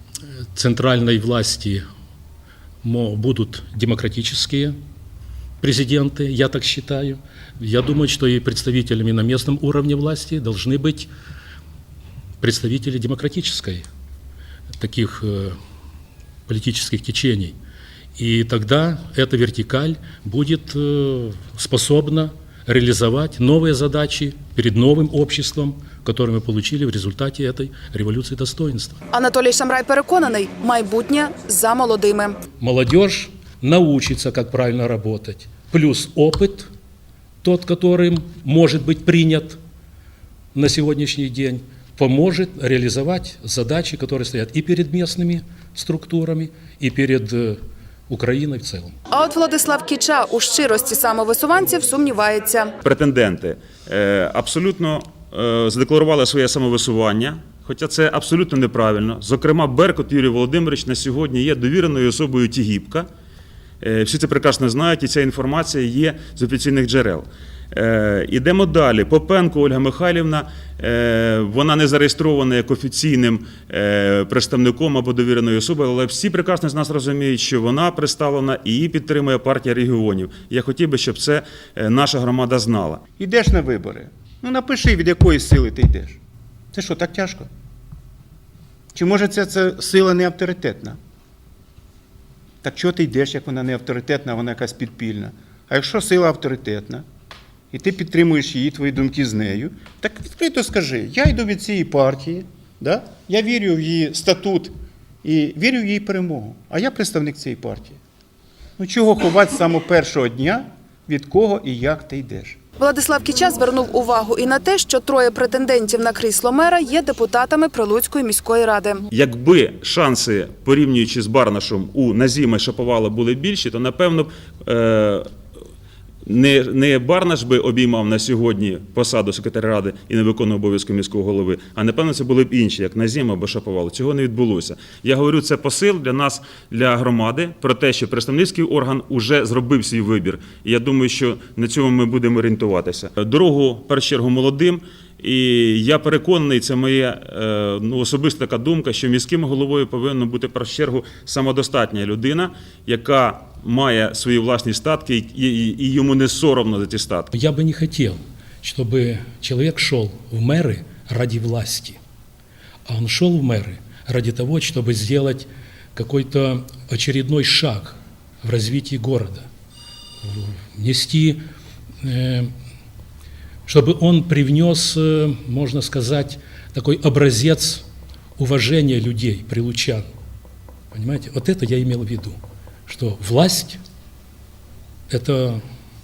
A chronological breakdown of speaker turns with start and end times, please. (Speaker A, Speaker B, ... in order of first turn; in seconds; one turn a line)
Speaker A: 0.5-1.8
Speaker A: 2.8-4.8
Speaker A: 5.6-11.1
Speaker A: 12.4-13.9
Speaker A: 14.8-15.6
Speaker A: 16.5-17.6
Speaker A: 18.2-29.0
Speaker B: 29.1-32.4
Speaker A: 32.6-36.7
Speaker A: 37.4-39.6
Speaker A: 40.5-48.9
Speaker B: 49.1-52.7
Speaker C: 52.8-63.1
Speaker C: 63.8-83.0
Speaker D: 83.2-86.2
Speaker D: 86.7-87.5
Speaker D: 88.9-91.0
Speaker D: 92.6-97.0
Speaker D: 97.7-104.7
Speaker D: 105.2-108.0
Speaker D: 108.8-112.6
Speaker B: 112.8-119.0
Speaker C: 119.1-125.3
Speaker C: 126.2-157.3
Speaker A: 157.3-162.0
Speaker A: 162.9-169.5
Speaker A: 170.2-171.4
Speaker A: 172.0-172.5
Speaker A: 173.7-177.8
Speaker A: 178.4-180.1
Speaker A: 180.9-183.8
Speaker A: 185.1-185.6